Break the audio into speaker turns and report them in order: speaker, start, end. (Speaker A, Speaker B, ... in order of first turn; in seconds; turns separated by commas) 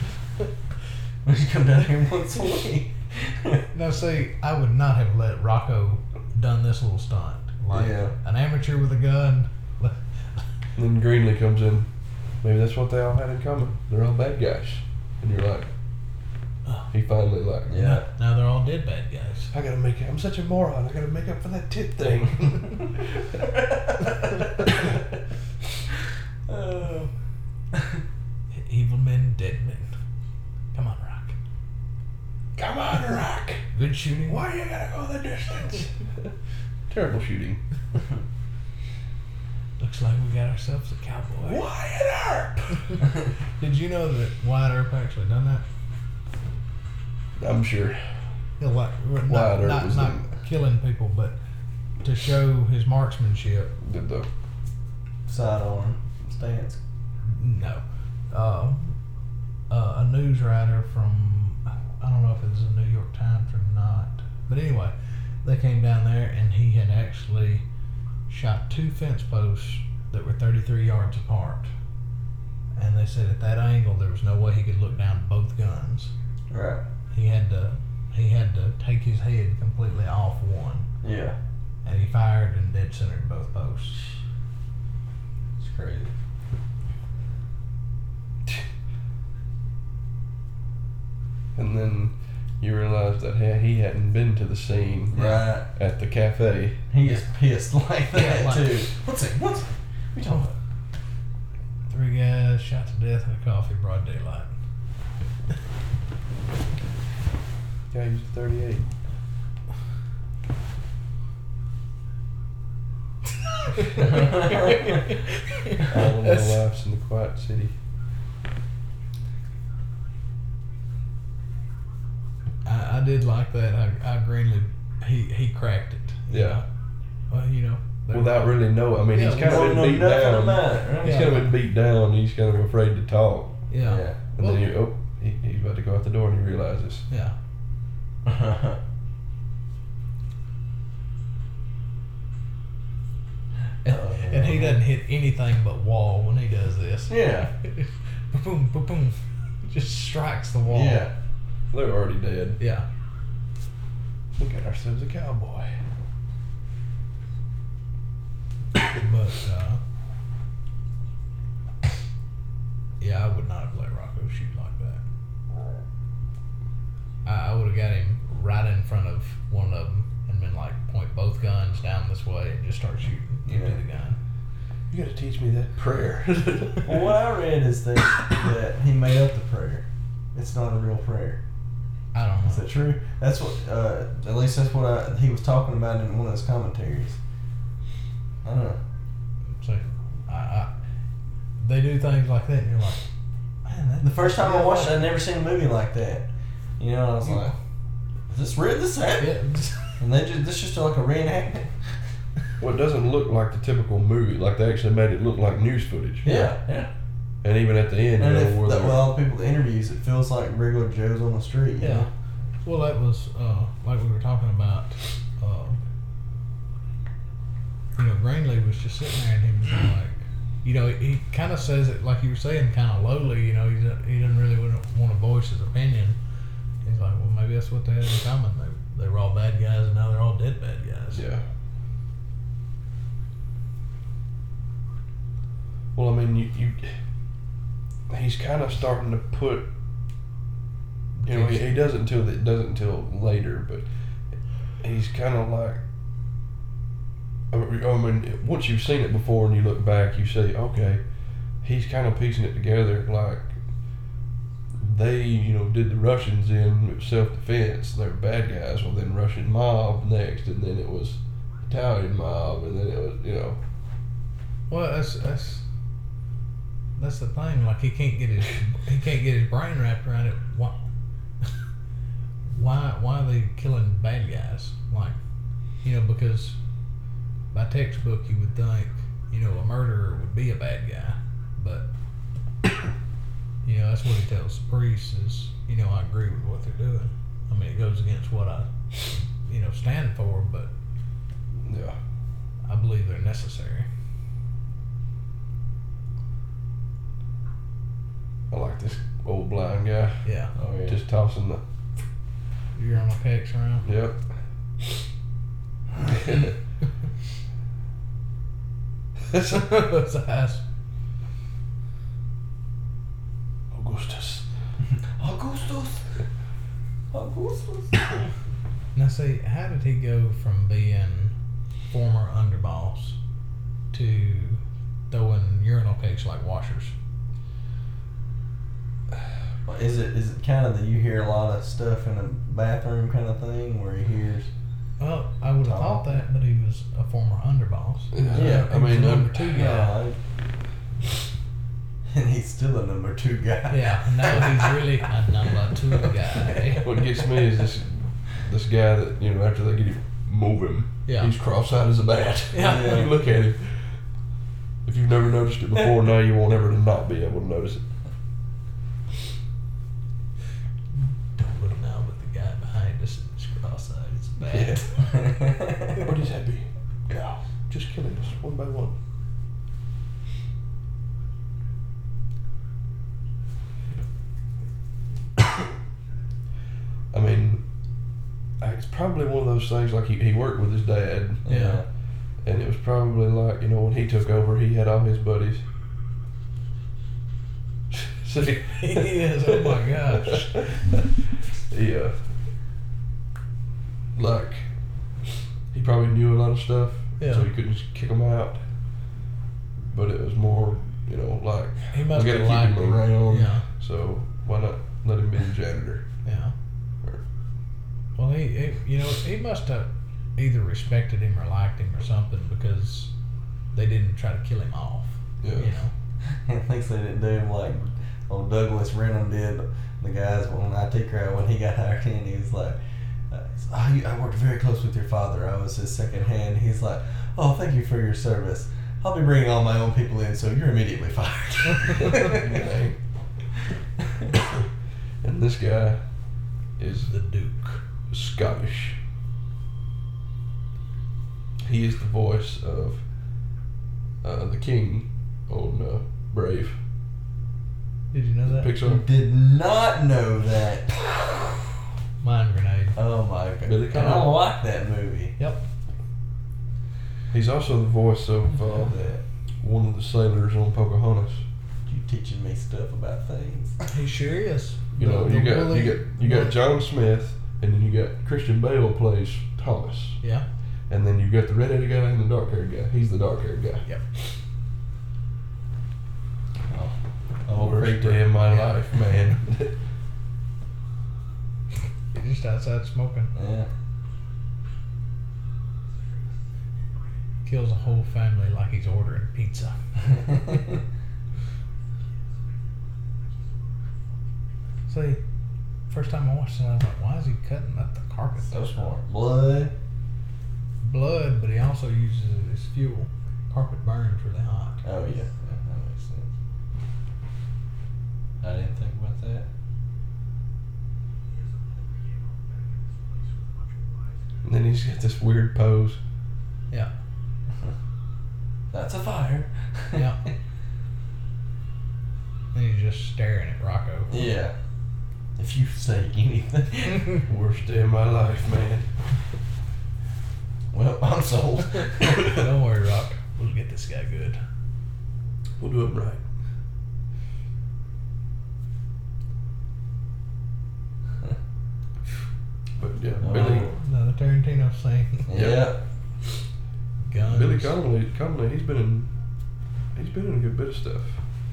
Speaker A: 1.2-3.6, Speaker B: 3.7-10.4, Speaker A: 7.7-8.1, Speaker C: 10.8-11.9, Speaker C: 12.4-15.7, Speaker C: 16.9-18.0, Speaker A: 17.7-18.1, Speaker B: 17.7-19.5, Speaker C: 19.5-23.4, Speaker A: 23.5-25.0, Speaker A: 26.5-27.1, Speaker A: 27.7-28.0, Speaker B: 28.5-29.9, Speaker B: 30.7-31.4, Speaker C: 32.6-33.6, Speaker B: 33.7-34.4, Speaker C: 34.3-36.3, Speaker C: 36.9-37.6, Speaker B: 39.8-41.6, Speaker C: 41.4-42.8, Speaker B: 43.6-45.6, Speaker C: 47.4-48.0, Speaker B: 48.6-51.4, Speaker C: 49.3-50.3, Speaker B: 52.0-53.7, Speaker C: 53.8-54.3, Speaker A: 55.3-56.8, Speaker B: 57.2-59.0, Speaker B: 59.7-67.6, Speaker B: 68.3-71.7, Speaker B: 72.8-76.1, Speaker A: 76.5-76.8, Speaker B: 77.1-80.9, Speaker A: 81.0-81.4, Speaker B: 81.8-84.0, Speaker A: 85.6-86.1, Speaker C: 91.6-96.8, Speaker A: 95.1-95.7, Speaker A: 96.9-100.5, Speaker B: 98.1-98.9, Speaker B: 101.9-104.5, Speaker C: 107.9-108.9, Speaker B: 113.7-116.6, Speaker A: 114.0-115.0, Speaker C: 115.8-117.7, Speaker B: 122.7-126.7, Speaker C: 126.3-126.6, Speaker B: 127.3-129.7, Speaker C: 128.1-133.6, Speaker A: 129.3-131.3, Speaker B: 131.0-131.5, Speaker B: 133.7-134.7, Speaker A: 133.8-134.2, Speaker C: 134.4-137.1, Speaker B: 137.1-137.3, Speaker A: 138.2-138.8, Speaker A: 143.8-144.8, Speaker B: 143.9-151.1, Speaker A: 147.1-147.5, Speaker A: 150.7-151.1, Speaker C: 151.7-152.6, Speaker B: 152.6-152.8, Speaker C: 154.4-155.7, Speaker B: 158.8-159.8, Speaker B: 163.0-165.0, Speaker B: 167.2-174.2, Speaker A: 173.5-173.8, Speaker C: 174.9-177.2, Speaker A: 176.8-181.4, Speaker B: 182.1-182.7, Speaker A: 182.5-187.2, Speaker A: 188.4-188.8, Speaker B: 189.6-190.7, Speaker B: 191.6-193.1, Speaker B: 193.7-195.1, Speaker A: 194.0-196.3, Speaker A: 196.8-197.5, Speaker A: 198.3-199.4, Speaker B: 199.2-200.0, Speaker A: 200.0-201.8, Speaker C: 202.6-206.5, Speaker A: 206.2-206.9, Speaker C: 207.4-209.1, Speaker A: 208.2-212.1, Speaker B: 211.8-212.1, Speaker B: 212.7-215.8, Speaker B: 218.0-226.2, Speaker B: 226.8-231.2, Speaker C: 231.1-231.4, Speaker C: 235.9-236.9, Speaker C: 238.1-239.7, Speaker B: 241.2-241.7, Speaker C: 241.3-243.9, Speaker C: 244.8-245.8, Speaker C: 247.5-251.0, Speaker C: 251.6-253.5, Speaker C: 254.8-263.6, Speaker B: 264.7-265.6, Speaker B: 266.9-270.8, Speaker B: 272.5-275.2, Speaker B: 275.8-276.6, Speaker B: 277.5-281.9, Speaker B: 283.6-290.7, Speaker C: 291.6-292.0, Speaker B: 292.6-293.9, Speaker C: 298.5-300.2, Speaker B: 300.2-300.5, Speaker A: 300.6-301.0, Speaker C: 300.9-301.6, Speaker B: 302.7-303.9, Speaker C: 303.9-304.2, Speaker C: 306.1-306.5, Speaker B: 309.3-310.6, Speaker C: 313.7-314.4, Speaker A: 315.2-316.1, Speaker A: 317.1-318.3, Speaker B: 318.9-321.3, Speaker B: 321.9-323.2, Speaker B: 323.9-326.9, Speaker A: 329.6-334.5, Speaker B: 335.0-339.9, Speaker A: 335.6-336.0, Speaker C: 338.1-339.5, Speaker A: 338.4-338.8, Speaker A: 339.4-340.2, Speaker A: 342.1-344.8, Speaker B: 343.7-346.9, Speaker C: 346.8-354.0, Speaker B: 351.1-351.3, Speaker B: 352.5-353.1, Speaker A: 352.6-353.1, Speaker C: 354.9-357.9, Speaker B: 361.0-365.3, Speaker C: 364.5-364.9, Speaker A: 365.1-365.9, Speaker C: 365.9-369.0, Speaker C: 377.1-377.6, Speaker C: 378.6-381.4, Speaker A: 381.4-381.8, Speaker B: 381.5-381.8, Speaker C: 382.4-385.6, Speaker C: 387.9-391.1, Speaker B: 388.4-390.8, Speaker C: 391.7-392.3, Speaker C: 394.1-394.6, Speaker C: 395.7-398.6, Speaker B: 397.2-397.5, Speaker C: 399.9-406.0, Speaker B: 401.9-403.7, Speaker B: 406.2-406.5, Speaker B: 408.2-413.1, Speaker B: 413.7-415.9, Speaker C: 415.4-415.7, Speaker A: 416.4-422.8, Speaker A: 423.3-432.7, Speaker C: 432.0-433.0, Speaker C: 435.2-436.0, Speaker C: 436.8-437.1, Speaker B: 437.1-437.8, Speaker C: 438.1-439.0, Speaker C: 441.6-443.0, Speaker C: 444.2-446.8, Speaker B: 448.1-448.7, Speaker C: 448.5-449.0, Speaker A: 448.8-451.4, Speaker B: 452.2-453.0, Speaker A: 452.9-455.3, Speaker C: 453.6-454.4, Speaker B: 455.4-455.6, Speaker C: 457.3-458.9, Speaker A: 458.6-459.2, Speaker C: 459.6-461.4, Speaker A: 461.9-463.9, Speaker B: 463.9-466.6, Speaker C: 465.0-470.2, Speaker B: 470.2-470.4, Speaker C: 470.9-474.3, Speaker A: 476.7-478.3, Speaker C: 477.5-479.7, Speaker B: 478.4-479.0, Speaker B: 482.1-483.3, Speaker A: 483.4-483.7, Speaker B: 487.4-489.8, Speaker A: 490.1-490.7, Speaker B: 494.9-495.2, Speaker B: 495.9-498.9, Speaker A: 498.5-499.7, Speaker B: 500.8-504.8, Speaker A: 504.8-506.3, Speaker A: 508.4-509.5, Speaker C: 514.4-516.0, Speaker A: 518.7-520.1, Speaker B: 519.9-520.2, Speaker B: 522.5-524.3, Speaker A: 524.1-524.5, Speaker A: 525.4-527.2, Speaker C: 527.2-528.9, Speaker A: 530.7-532.4, Speaker B: 532.2-534.4, Speaker C: 535.6-536.2, Speaker C: 542.8-543.7, Speaker A: 543.2-543.7, Speaker B: 543.3-545.3, Speaker A: 545.3-545.8, Speaker C: 545.3-545.7, Speaker B: 547.1-547.7, Speaker C: 547.2-549.1, Speaker C: 550.0-551.2